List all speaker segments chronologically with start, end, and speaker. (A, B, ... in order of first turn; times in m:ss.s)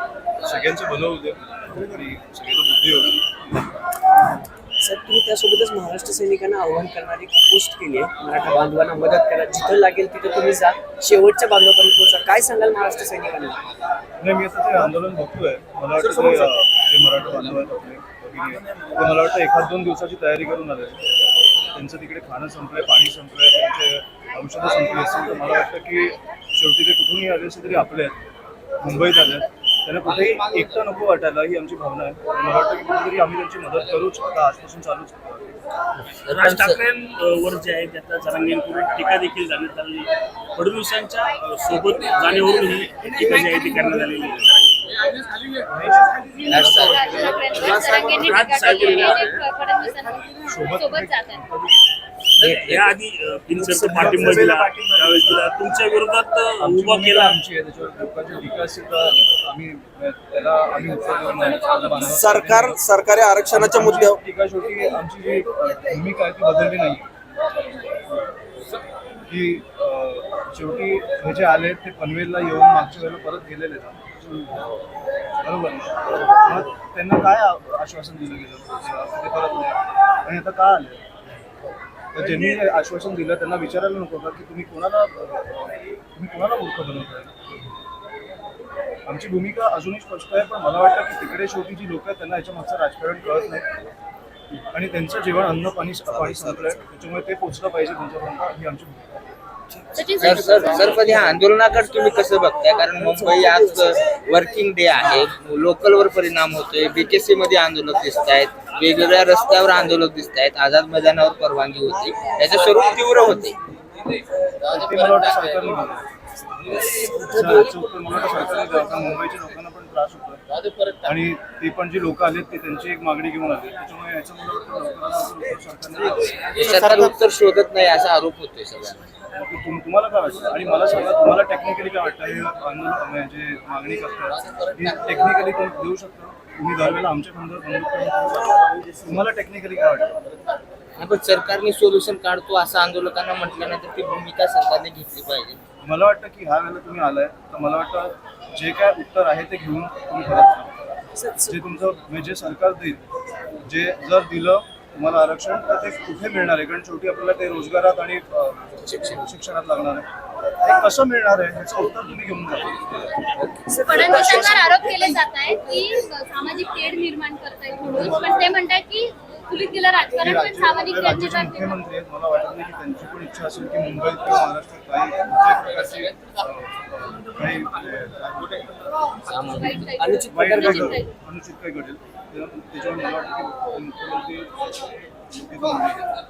0:00.4-0:03.7 A
0:04.8-0:13.6 B
0:14.2-0:21.0 A
0:21.7-0:28.2 A
0:28.8-0:35.5 A
0:36.3-0:36.8 C
0:36.3-0:45.0 D
0:45.6-0:47.4 A
0:46.5-0:47.1 C
0:46.5-0:51.4 E
0:47.9-0:49.4 D
0:50.4-0:51.9 A
0:52.4-0:52.9 C
0:52.5-0:57.4 D
0:53.6-0:55.2 A
0:54.5-0:55.0 F
0:56.6-1:02.8 A
1:02.1-1:04.2 F
1:03.5-1:07.1 A
1:09.3-1:14.1 A
1:15.4-1:21.0 A
1:22.1-1:27.3 A
1:22.2-1:22.5 D
1:29.1-1:33.7 A
1:34.7-1:39.2 A
1:36.1-1:36.8 C
1:40.0-1:41.0 E
1:40.2-1:53.6 C
1:54.7-1:56.0 A
1:54.7-1:55.2 C
1:57.2-2:00.4 A
2:01.0-2:06.6 A
2:06.5-2:09.0 C
2:09.3-2:20.2 A
2:21.0-2:25.6 C
2:25.8-2:30.7 A
2:31.1-2:31.6 B
2:31.5-2:33.0 A
2:33.6-2:40.1 A
2:38.8-2:39.2 C
2:40.6-2:43.0 A
2:43.6-2:45.1 B
2:43.8-2:51.8 E
2:44.1-2:44.4 A
2:47.9-2:48.5 A
2:50.2-2:58.7 A
2:59.3-2:59.8 C
2:59.5-3:01.1 E
3:00.0-3:01.0 B
3:00.3-3:04.5 A
3:05.4-3:06.0 A